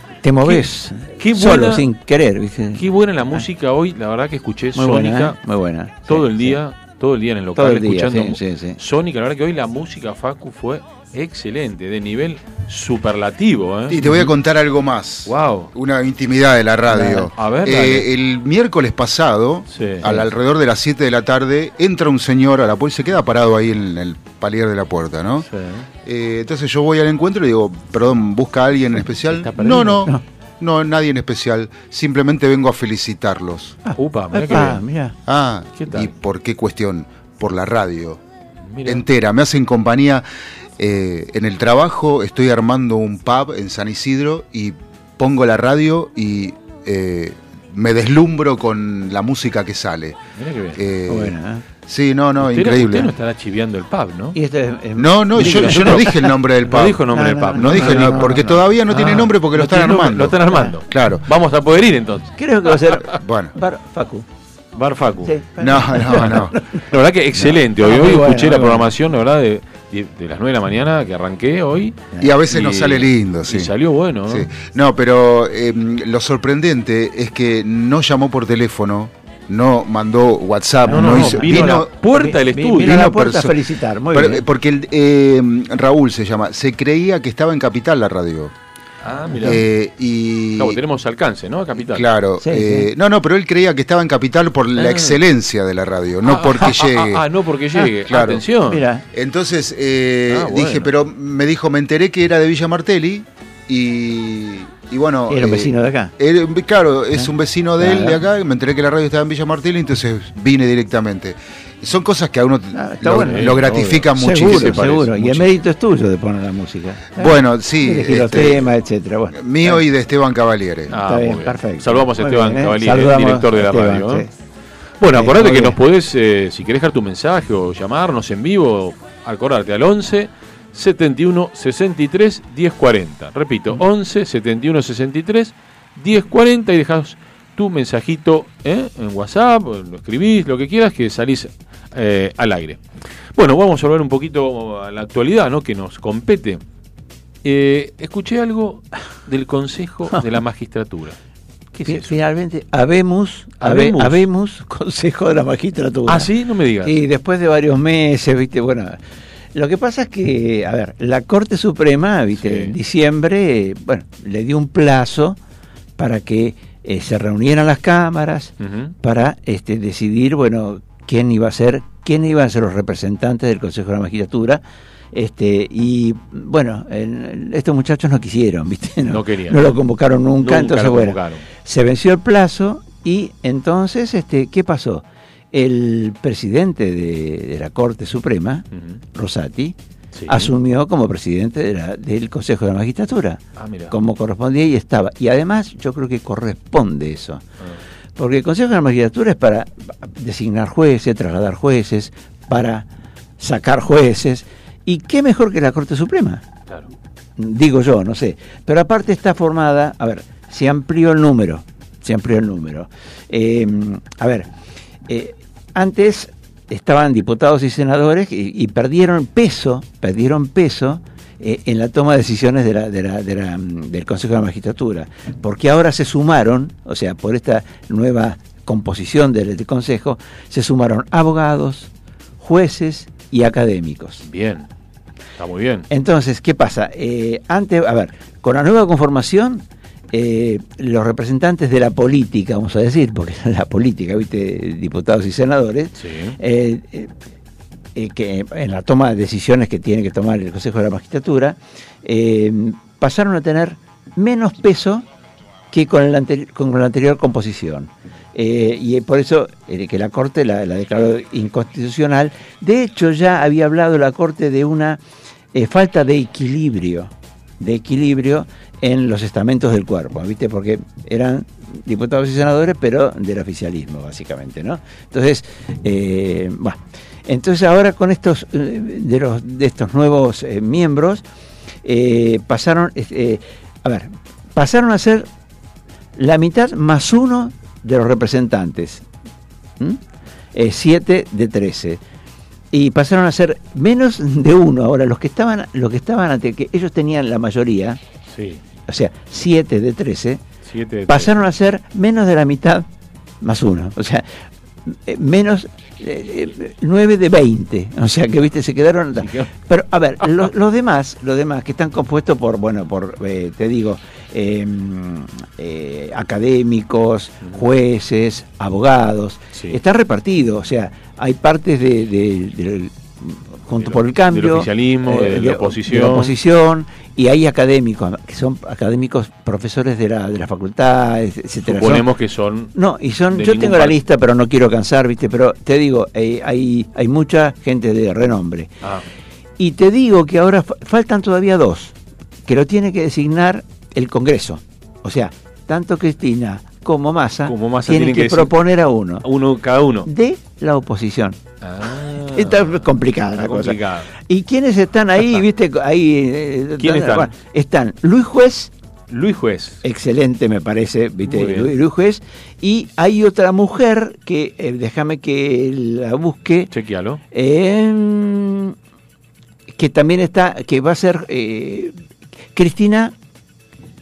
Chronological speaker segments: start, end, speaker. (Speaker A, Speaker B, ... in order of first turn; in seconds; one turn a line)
Speaker A: 0.2-3.5
Speaker B: 0.4-1.9
Speaker B: 2.7-5.4
Speaker A: 4.7-6.6
Speaker B: 6.0-14.3
Speaker A: 7.5-8.8
Speaker C: 13.9-25.4
Speaker B: 15.2-15.7
Speaker A: 16.9-17.3
Speaker B: 17.0-18.1
Speaker B: 19.7-20.3
Speaker B: 25.4-25.9
Speaker C: 26.0-33.8
Speaker B: 29.2-30.1
Speaker A: 33.8-35.1
Speaker B: 34.0-34.8
Speaker C: 35.3-38.2
Speaker B: 35.8-36.1
Speaker B: 38.7-39.0
Speaker C: 38.8-40.2
Speaker C: 40.8-50.2
Speaker B: 50.4-50.8
Speaker C: 50.8-51.4
Speaker A: 51.1-51.6
Speaker C: 51.9-53.1
Speaker B: 52.4-54.4
Speaker A: 54.3-56.2
Speaker C: 55.0-61.2
Speaker B: 55.4-63.1
Speaker A: 57.1-59.2
Speaker A: 60.5-60.7
Speaker A: 62.4-64.3
Speaker C: 63.1-63.5
Speaker B: 64.8-65.3
Speaker A: 65.2-66.8
Speaker C: 65.6-66.5
Speaker B: 66.9-74.5
Speaker A: 67.8-68.9
Speaker C: 72.2-73.7
Speaker C: 74.3-81.9
Speaker A: 80.8-84.4
Speaker B: 80.9-83.1
Speaker C: 82.8-83.6
Speaker C: 84.1-88.5
Speaker B: 89.0-89.6
Speaker C: 89.4-90.8
Speaker B: 90.6-92.1
Speaker C: 91.8-97.2
Speaker A: 92.4-92.9
Speaker B: 94.8-95.2
Speaker B: 96.2-98.8
Speaker C: 98.1-98.4
Speaker A: 98.6-99.0
Speaker C: 99.1-114.8
Speaker B: 100.3-100.9
Speaker A: 105.3-106.1
Speaker A: 107.1-108.2
Speaker A: 112.7-113.5
Speaker B: 113.1-115.5
Speaker A: 114.2-119.8
Speaker C: 117.2-118.7
Speaker C: 119.3-120.9
Speaker B: 120.9-124.3
Speaker A: 120.9-124.3
Speaker B: 125.0-142.8
Speaker A: 125.1-125.8
Speaker B: 143.3-146.6
Speaker B: 147.4-151.2
Speaker B: 151.7-152.1
Speaker A: 151.8-156.3
Speaker B: 153.6-154.2
Speaker B: 156.1-157.0
Speaker A: 156.8-159.0
Speaker A: 159.5-165.4
Speaker B: 162.4-162.7
Speaker A: 166.0-189.8
Speaker B: 168.6-168.9
Speaker B: 179.0-179.8
Speaker B: 180.4-181.4
Speaker B: 188.7-189.0
Speaker B: 190.1-190.5
Speaker A: 190.3-197.4
Speaker B: 193.6-193.9
Speaker A: 198.2-202.9
Speaker A: 203.4-206.4
Speaker A: 207.4-214.5
Speaker A: 215.1-234.2
Speaker B: 234.2-234.7
Speaker B: 235.4-235.9
Speaker A: 235.9-247.1
Speaker B: 246.0-246.4
Speaker A: 247.9-255.1
Speaker A: 255.7-265.0
Speaker A: 265.5-281.2
Speaker A: 281.8-285.3
Speaker A: 286.1-289.1
Speaker A: 290.5-292.0
Speaker A: 292.7-298.0
Speaker B: 298.3-298.6
Speaker A: 298.9-300.4
Speaker B: 300.6-301.4
Speaker A: 301.1-302.9
Speaker A: 303.4-304.3
Speaker A: 304.8-332.1
Speaker B: 309.2-309.5
Speaker B: 323.8-326.3
Speaker B: 331.6-332.7
Speaker A: 332.7-338.7
Speaker B: 333.3-334.0
Speaker A: 339.6-341.9
Speaker A: 342.4-349.2
Speaker B: 347.4-348.5
Speaker B: 349.2-350.1
Speaker A: 350.0-351.4
Speaker B: 351.6-354.1
Speaker A: 352.3-358.7
Speaker B: 356.8-357.3
Speaker B: 359.1-359.8
Speaker A: 359.8-366.7
Speaker B: 361.2-361.8
Speaker B: 366.7-367.2
Speaker A: 367.3-368.8
Speaker A: 369.7-371.9
Speaker A: 372.5-373.1